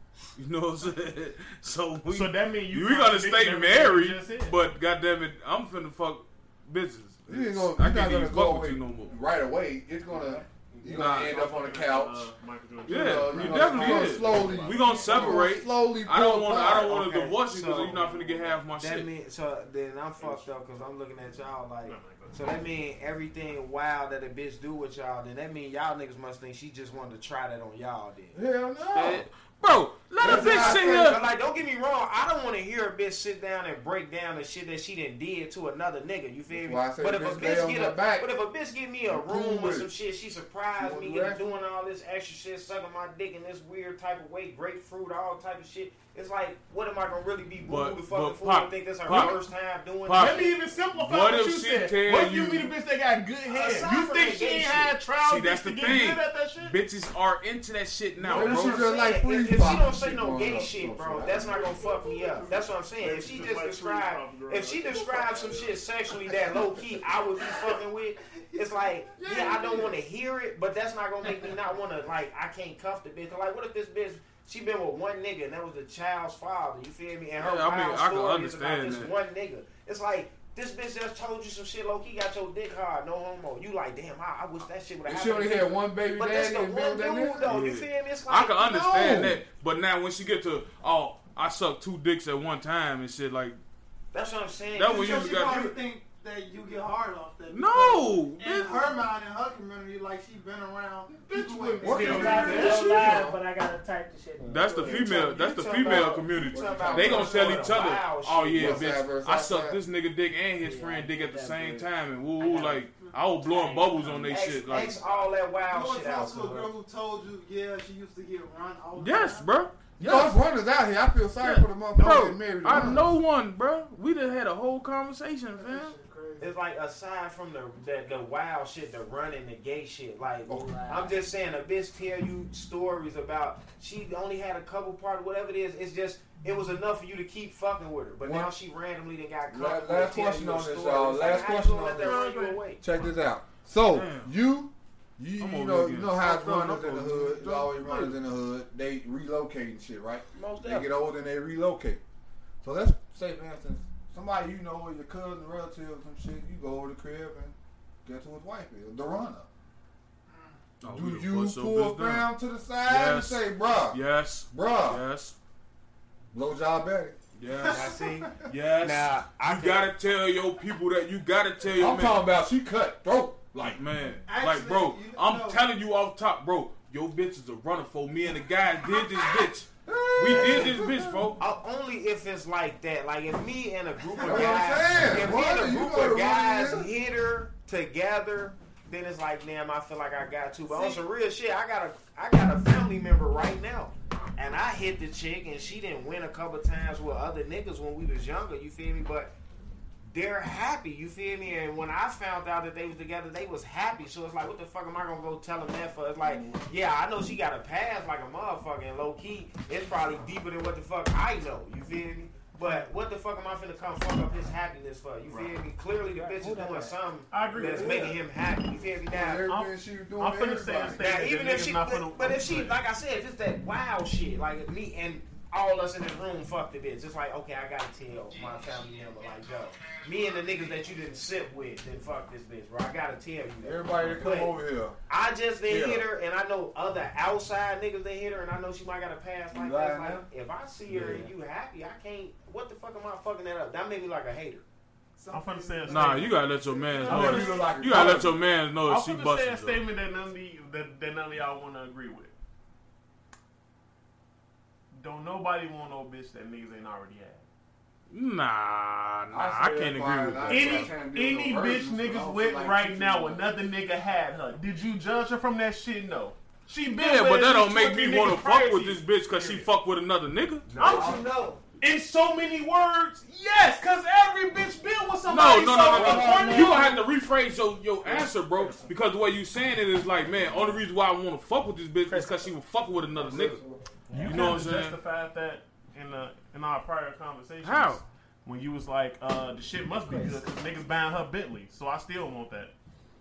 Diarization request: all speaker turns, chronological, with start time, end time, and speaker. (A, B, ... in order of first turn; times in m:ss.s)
0:00.4-0:09.2 A
0:02.1-0:04.6 B
0:07.3-0:12.3 C
0:10.2-0:15.5 B
0:10.8-0:11.4 A
0:12.9-0:16.9 C
0:12.9-0:19.1 A
0:16.5-0:28.4 D
0:18.0-0:18.5 B
0:20.2-0:20.5 B
0:21.8-0:22.4 B
0:28.3-0:29.3 C
0:28.9-0:31.2 A
0:30.2-0:31.2 C
0:30.2-0:50.6 D
0:36.5-0:38.3 C
0:39.1-0:39.9 C
0:40.8-0:41.6 C
0:47.6-0:49.4 A
0:50.0-0:52.7 A
0:50.1-0:56.8 B
0:53.5-0:55.0 D
0:55.2-0:58.9 A
0:58.2-1:01.6 C
0:58.3-1:29.2 D
1:01.5-1:05.8 B
1:01.9-1:02.1 E
1:08.5-1:10.0 E
1:17.4-1:19.1 A
1:25.1-1:27.5 C
1:27.5-1:33.6 A
1:28.8-1:29.4 C
1:34.1-1:35.7 D
1:34.8-1:35.7 A
1:34.8-1:43.0 E
1:37.5-1:39.0 A
1:41.2-1:43.4 B
1:41.8-1:43.3 C
1:42.0-1:45.1 F
1:44.5-1:55.0 A
1:44.8-1:49.0 D
1:45.8-1:47.8 C
1:48.6-1:49.8 C
1:50.6-1:51.9 F
1:52.4-1:52.8 F
1:53.5-1:53.9 F
1:54.1-1:56.7 D
1:55.1-1:59.5 E
1:59.0-2:00.4 A
2:00.0-2:03.2 C
2:01.4-2:06.0 A
2:05.6-2:06.5 E
2:06.4-2:22.8 D
2:10.5-2:11.2 F
2:18.2-2:18.5 C
2:19.5-2:22.2 C
2:21.9-2:22.6 B
2:22.8-2:32.0 C
2:23.9-2:24.3 A
2:25.4-2:28.2 A
2:30.4-2:30.9 D
2:32.6-2:39.5 C
2:40.3-2:40.6 E
2:40.8-2:42.3 A
2:40.9-2:44.0 C
2:42.8-2:45.4 A
2:44.5-2:45.0 C
2:46.3-2:47.2 C
2:47.4-2:52.2 A
2:47.6-2:48.4 E
2:47.7-2:49.9 D
2:51.7-2:53.8 C
2:53.7-3:01.4 A
2:54.2-2:55.6 E
2:58.9-2:59.5 E
2:59.9-3:01.4 C
3:00.3-3:00.8 D
3:01.4-3:19.3 D
3:04.2-3:04.6 E
3:04.2-3:06.9 C
3:20.1-3:39.5 D
3:35.2-3:35.6 B
3:36.0-3:37.0 F
3:37.3-3:38.2 B
3:37.6-3:38.1 C
3:39.1-3:41.1 C
3:39.4-3:42.8 B
3:41.0-3:54.6 D
3:53.6-3:55.0 C
3:55.1-4:04.6 D
3:55.7-3:56.1 C
3:59.5-4:00.2 C
4:00.9-4:01.3 C
4:05.2-4:07.8 E
4:05.3-4:06.4 B
4:05.9-4:09.8 A
4:07.0-4:08.2 B
4:07.1-4:08.4 C
4:08.8-4:12.3 B
4:14.9-4:17.4 B
4:18.1-4:20.9 A
4:19.3-4:23.4 C
4:20.4-4:29.7 B
4:26.9-4:30.7 A
4:30.7-4:31.6 D
4:30.8-4:31.3 B
4:30.8-4:31.2 C
4:31.8-4:37.0 B
4:35.3-4:43.6 A
4:35.9-4:37.0 F
4:42.1-4:42.5 F
4:43.2-4:43.8 C
4:44.1-4:44.4 F
4:44.1-4:52.7 B
4:44.2-4:45.0 A
4:47.6-4:48.0 A